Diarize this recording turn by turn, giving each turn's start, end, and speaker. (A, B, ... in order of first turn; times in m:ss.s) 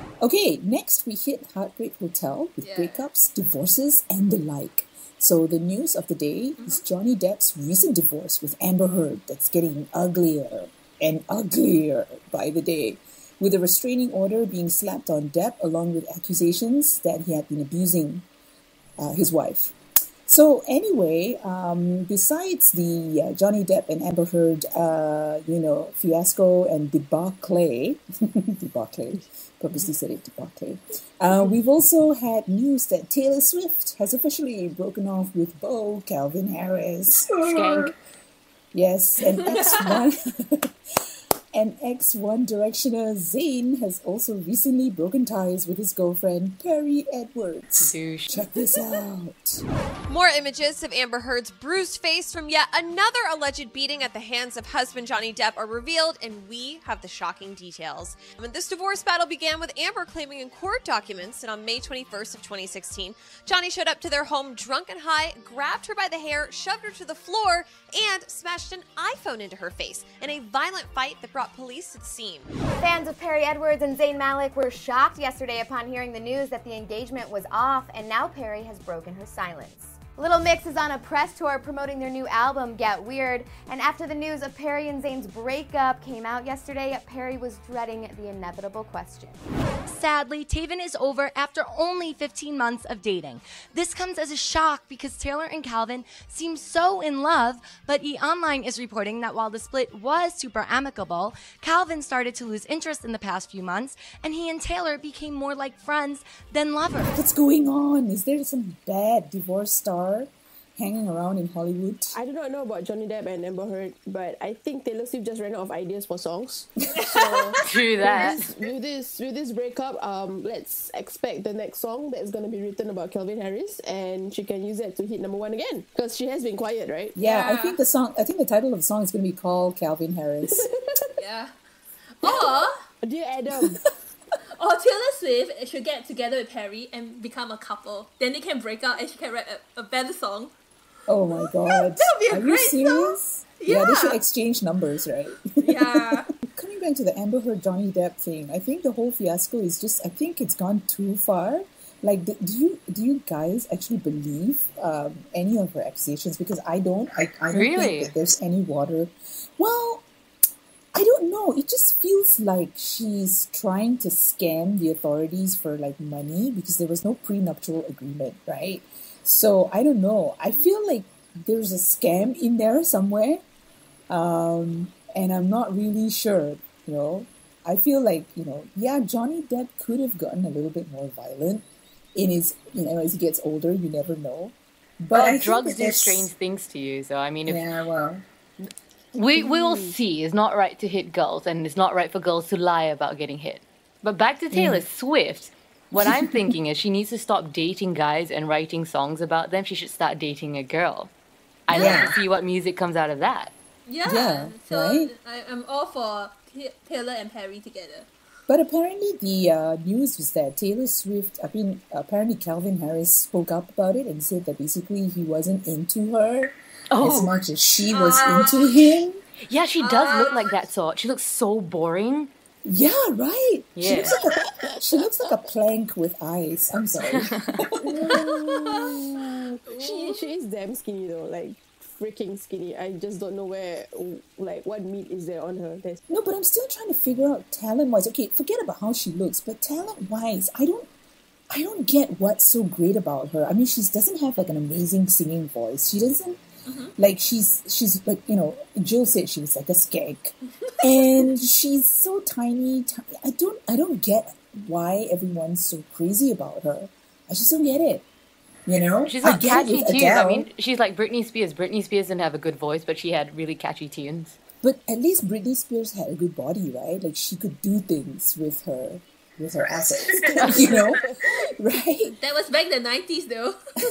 0:00.2-0:18.2 A
0:02.6-0:03.0 B
0:19.0-0:19.8 A
0:20.3-0:37.9 A
0:37.4-0:37.9 C
0:38.7-0:40.7 A
0:41.5-0:49.6 A
0:47.8-0:48.4 C
0:50.1-1:12.5 D
1:12.8-1:29.4 E
1:29.9-1:47.1 F
1:47.2-1:52.2 A
1:52.1-2:07.2 G
1:57.0-1:57.3 A
1:57.6-1:58.4 C
2:07.2-2:10.7 A
2:07.2-2:07.8 B
2:10.5-2:11.0 G
2:11.2-2:11.5 B
2:12.2-2:12.8 B
2:13.0-2:13.8 G
2:14.6-2:20.5 B
2:21.1-2:40.1 A
2:21.3-2:24.2 B
2:25.6-2:26.3 B
2:37.5-2:38.1 C
2:40.9-2:53.4 A
2:54.1-3:06.3 A
3:05.1-3:07.6 C
3:07.5-3:08.2 A
3:09.2-3:21.1 C
3:09.4-3:09.9 G
3:14.5-3:14.8 A
3:16.0-3:16.5 A
3:21.7-3:23.5 C
3:21.7-3:22.1 A
3:21.7-3:22.1 B
3:23.9-3:28.1 B
3:24.0-3:25.1 A
3:28.5-3:39.2 A
3:36.9-3:37.3 C
3:37.9-3:38.7 B
3:39.5-3:42.3 C
3:39.8-3:40.5 B
3:42.6-3:48.4 A
3:43.8-3:44.2 C
3:43.9-3:45.0 G
3:47.1-3:47.6 C
3:47.8-3:56.0 G
3:48.6-3:49.0 B
3:49.7-3:50.3 B
3:56.1-4:00.9 A
4:01.5-4:06.4 A
4:06.7-4:06.9 B
4:07.0-4:18.1 A
4:18.7-4:20.5 A
4:19.1-4:24.4 C
4:24.6-4:32.2 A
4:30.0-4:30.9 G
4:30.4-4:30.8 B
4:32.1-4:33.6 B